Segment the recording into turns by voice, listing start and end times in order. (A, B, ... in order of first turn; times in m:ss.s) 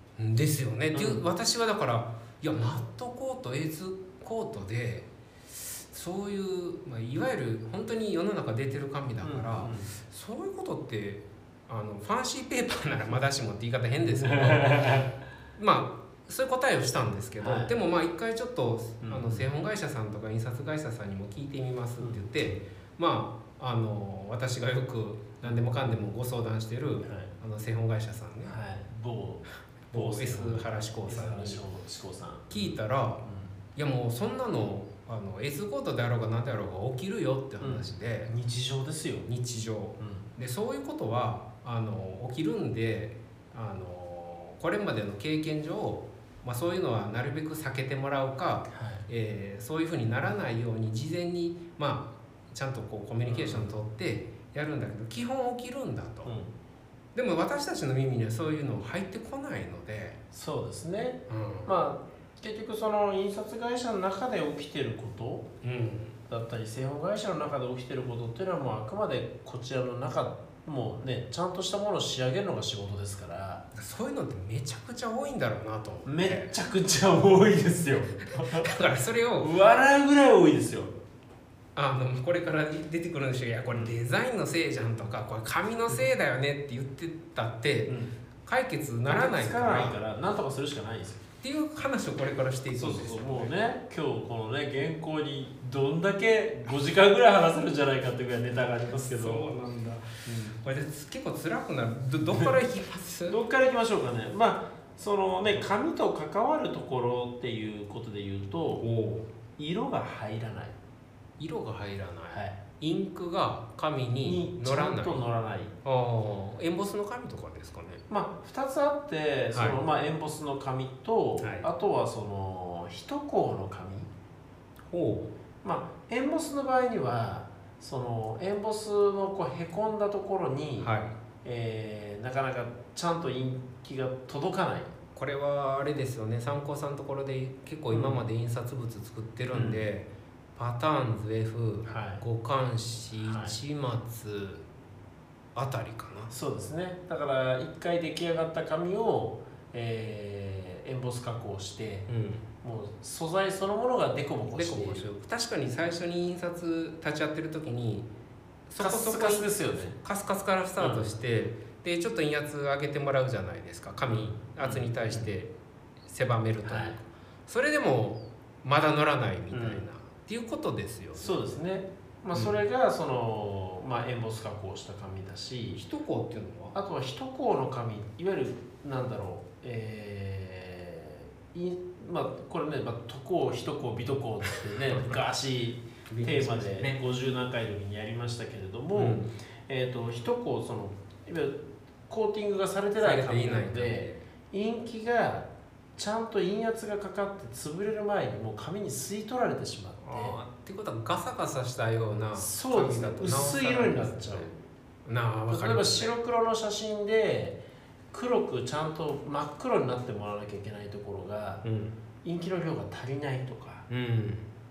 0:00.2-0:15.0 A
0:00.9-0:01.2 B
0:09.2-0:09.9 B
0:14.1-0:15.1 B
0:15.6-0:28.6 A
0:17.4-0:17.7 B
0:19.0-0:19.5 B
0:22.0-0:22.6 B
0:27.0-0:27.3 B
0:28.4-0:32.7 B
0:29.9-0:31.6 A
0:32.5-0:33.2 A
0:33.2-0:33.5 B
0:33.7-0:38.3 A
0:37.6-0:39.3 B
0:39.3-0:56.3 A
0:40.0-0:40.3 B
0:48.7-0:49.0 B
0:53.2-0:53.7 B
0:56.2-0:56.5 B
0:57.1-1:00.2 A
1:00.3-1:05.5 B
1:01.3-1:01.7 A
1:05.6-1:06.1 A
1:06.3-1:13.6 B
1:13.7-1:16.5 A
1:16.0-1:18.7 B
1:18.4-1:19.5 A
1:19.4-1:20.9 B
1:21.7-1:30.0 A
1:27.9-1:28.1 B
1:29.1-1:31.2 B
1:31.4-1:33.5 A
1:32.7-1:39.5 B
1:38.9-1:43.4 A
1:40.2-1:40.6 B
1:43.3-1:48.8 B
1:48.8-1:49.3 A
1:49.6-1:50.8 B
1:51.4-1:55.2 A
1:52.3-1:52.6 B
1:54.2-1:55.7 B
1:55.8-1:58.0 A
1:58.1-2:04.1 B
2:01.4-2:01.6 A
2:04.9-2:05.3 A
2:05.6-2:10.9 B
2:10.8-2:11.2 A
2:11.4-2:14.9 B
2:15.1-2:24.6 A
2:17.9-2:18.2 B
2:19.5-2:19.8 B
2:21.8-2:22.2 B
2:23.2-2:23.6 B
2:25.5-2:26.3 A
2:26.3-2:32.1 B
2:32.1-2:32.4 A
2:32.6-2:35.1 B
2:34.5-2:38.1 A
2:38.7-2:45.5 A
2:38.8-2:40.0 B
2:40.8-2:41.1 B
2:44.1-2:45.3 B
2:46.0-2:51.4 A
2:46.6-2:47.0 B
2:49.5-2:49.8 B
2:51.2-2:55.8 B
2:55.8-2:56.8 A
2:56.7-3:20.4 B
3:06.1-3:07.0 A
3:08.9-3:09.3 A
3:13.0-3:14.2 A
3:20.0-3:24.5 A
3:22.3-3:24.5 B
3:25.0-3:26.1 A
3:25.5-3:27.6 B
3:28.1-3:31.6 B
3:31.6-3:31.9 A
3:32.2-3:33.9 B
3:33.9-3:34.5 A